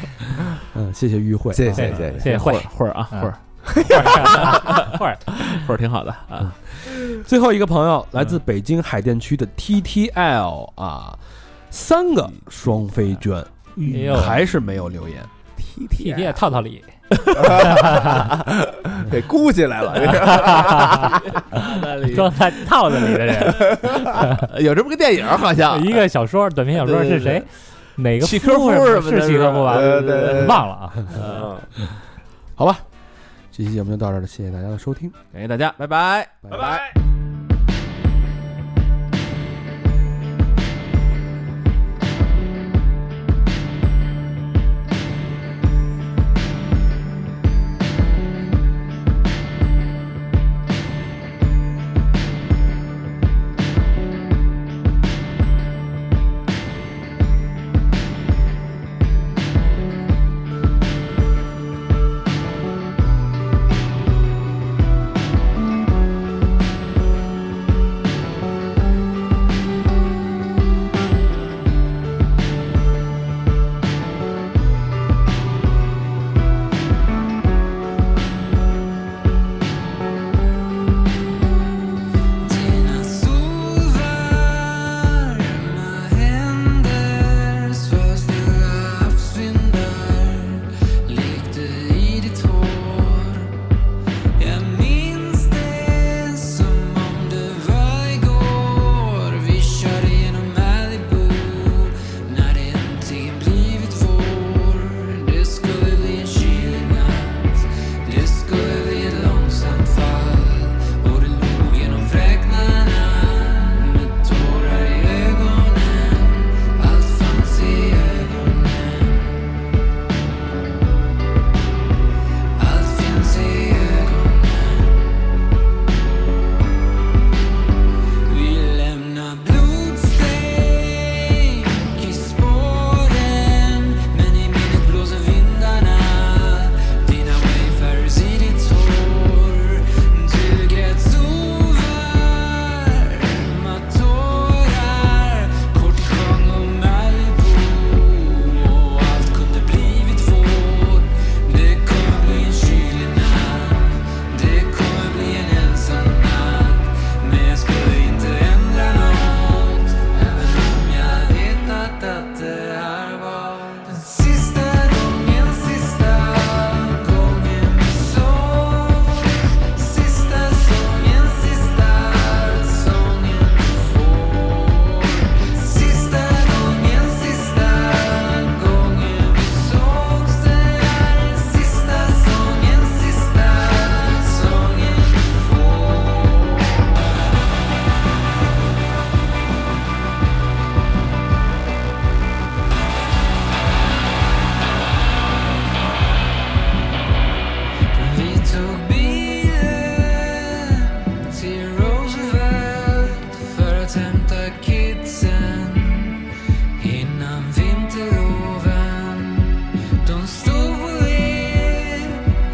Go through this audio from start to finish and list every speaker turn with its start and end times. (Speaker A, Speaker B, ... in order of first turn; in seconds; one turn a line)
Speaker A: 0.7-2.1
Speaker B: 1.5-2.3
Speaker C: 1.8-3.4
Speaker D: 2.1-7.2
Speaker B: 3.7-4.5
Speaker C: 3.9-5.2
Speaker A: 7.1-11.2
Speaker A: 11.7-15.3
Speaker C: 13.8-14.4
Speaker B: 15.7-16.3
Speaker C: 16.0-18.3
Speaker D: 17.2-17.5
Speaker B: 17.4-21.4
Speaker C: 20.2-21.1
Speaker D: 21.1-26.1
Speaker C: 22.0-24.4
Speaker C: 25.7-31.1
Speaker D: 26.8-27.4
Speaker D: 28.2-30.5
Speaker B: 29.6-30.6
Speaker D: 31.1-31.7
Speaker A: 32.6-32.8
Speaker A: 33.5-35.2
Speaker D: 35.3-36.8
Speaker A: 36.4-36.7
Speaker B: 36.5-36.9
Speaker E: 82.4-93.5
Speaker E: 94.4-119.5
Speaker E: 122.6-125.2
Speaker E: 128.3-187.4
Speaker E: 197.9-206.3
Speaker E: 206.8-212.3